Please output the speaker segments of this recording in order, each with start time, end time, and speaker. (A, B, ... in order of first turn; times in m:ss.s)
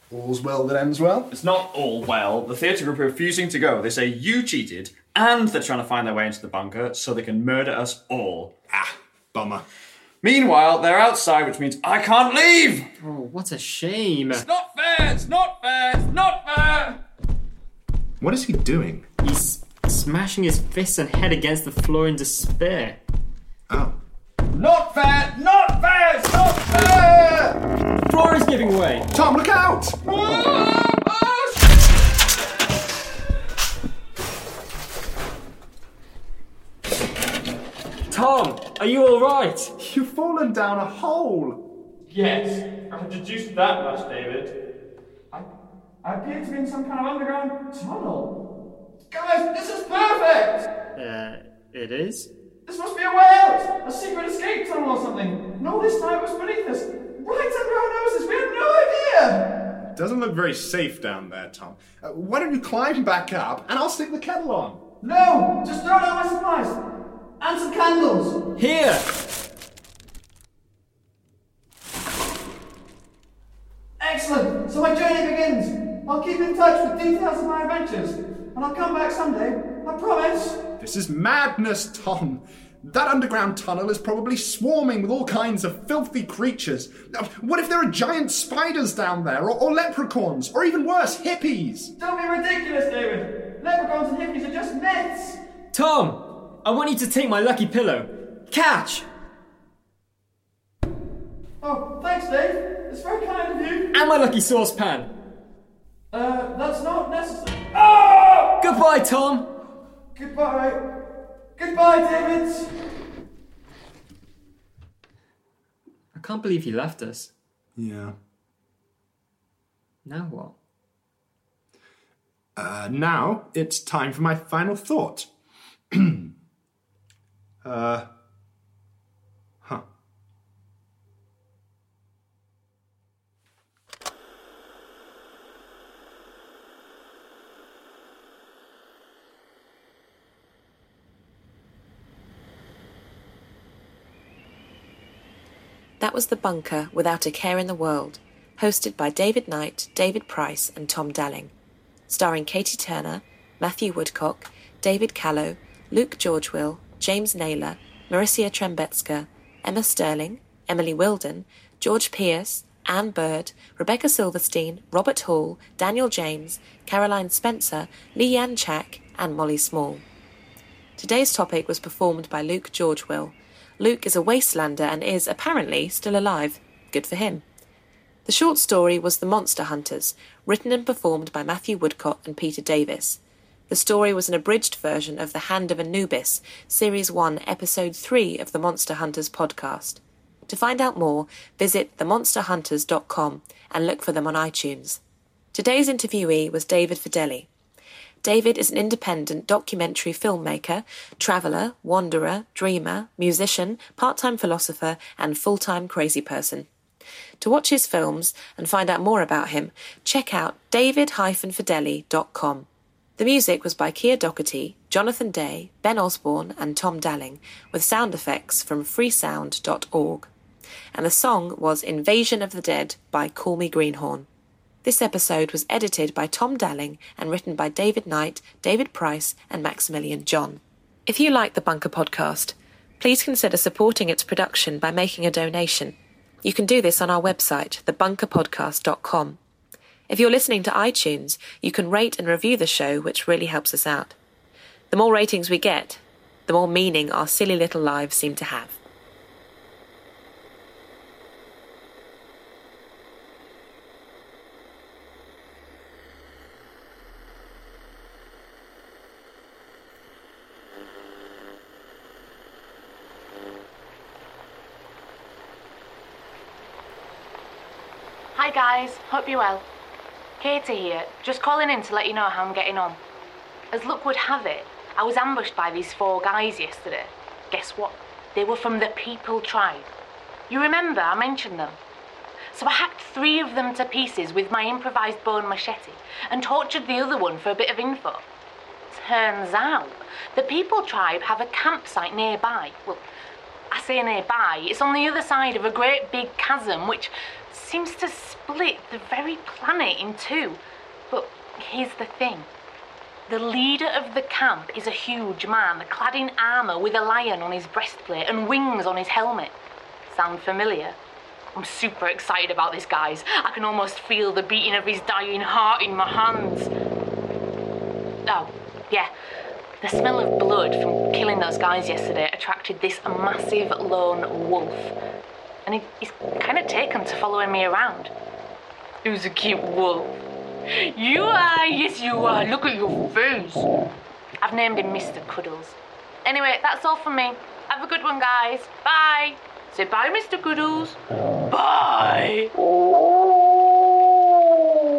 0:00.1-0:01.3 A
0:01.3-0:08.5 B
0:08.7-0:09.6 A
0:10.2-0:12.9 B
0:13.0-0:14.4 C
0:14.4-0:17.0 B
0:18.2-0:19.1 A
0:19.2-0:23.0 C
0:23.7-0:24.0 A
0:24.6-0:27.4 B
0:28.0-0:29.1 C
0:29.1-0:30.3 A
0:30.3-0:31.3 B
0:38.1-0:39.7 C
0:39.8-0:41.6 A
0:42.1-0:44.5 B
0:46.0-0:48.3 B
0:49.1-0:50.7 B
0:51.0-0:52.3 C
0:52.7-0:59.4 B
0:59.9-1:04.8 A
1:05.0-1:06.7 B
1:07.4-1:08.4 B
1:08.6-1:09.0 C
1:14.0-1:20.6 B
1:20.8-1:31.9 A
1:32.0-1:35.4 B
1:35.7-1:39.1 C
1:41.6-1:43.9 B
1:43.9-1:45.1 C
1:46.1-1:48.5 B
1:48.6-1:49.4 C
1:50.2-1:50.8 B
1:51.6-1:52.7 B
1:56.1-1:57.3 C
1:57.8-1:58.2 A
2:00.0-2:00.6 C
2:02.6-2:05.3 A
2:05.9-2:06.3 A
2:07.6-2:08.1 A
2:26.0-2:31.5 D
2:32.1-2:50.0 D
2:51.0-2:57.4 D
2:58.2-3:15.0 D
3:15.5-3:17.5 D
3:18.2-3:26.7 D
3:27.4-3:32.7 D
3:33.2-3:40.3 D
3:40.9-3:44.3 D
3:44.8-3:59.4 D
4:00.1-4:04.2 D
4:04.9-4:08.8 D
4:28.3-4:29.7 E
4:30.4-4:33.0 E
4:33.7-4:39.9 E
4:40.5-4:41.8 E
4:42.5-4:48.2 E
4:48.9-4:53.0 E
4:53.7-5:02.5 E
5:03.3-5:09.6 E
5:10.1-5:11.0 E
5:11.6-5:16.7 E
5:18.3-5:19.1 E
5:19.8-5:24.9 E
5:25.7-5:28.1 E
5:29.0-5:30.2 E
5:30.9-5:33.7 E
5:34.4-5:41.0 E
5:41.5-5:42.5 E